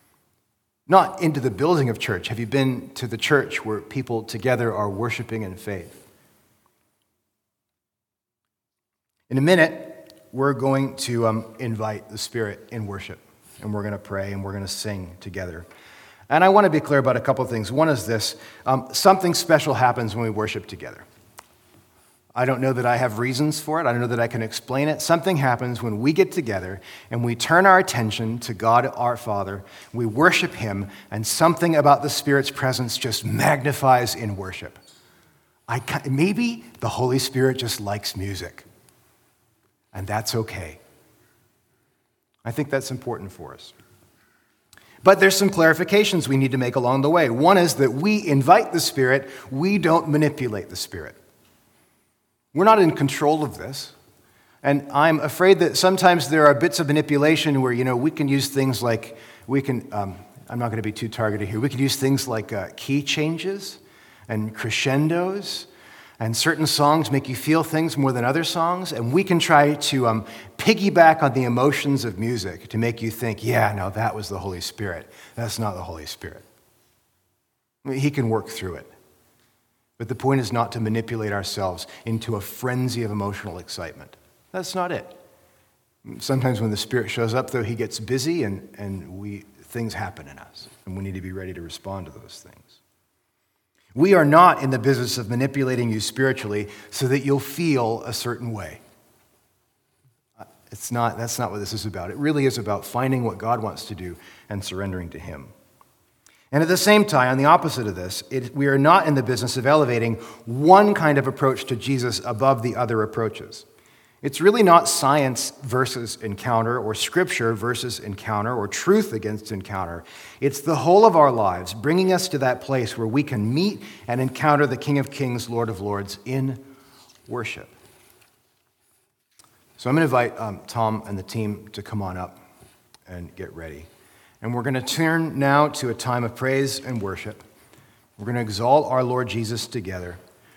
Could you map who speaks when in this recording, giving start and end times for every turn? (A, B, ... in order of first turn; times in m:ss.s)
0:00.9-0:06.0 A
0:09.3-0:15.7 A
0:16.3-0:21.0 A
0:22.4-0:34.8 A
0:35.7-0:38.6 A
0:39.9-0:40.8 A
0:42.4-0:43.7 A
0:45.0-0:51.2 A
0:52.5-0:53.9 A
0:54.6-1:05.7 A
1:06.2-1:16.4 A
1:17.8-1:18.9 A
1:20.0-1:25.2 A
1:26.0-1:32.8 A
1:34.0-1:38.8 A
1:40.6-1:45.5 A
1:46.5-1:53.7 A
1:54.2-2:06.6 A
2:07.3-2:07.7 A
2:09.8-2:12.4 A
2:13.1-2:13.9 A
2:14.4-2:17.4 A
2:18.2-2:20.2 A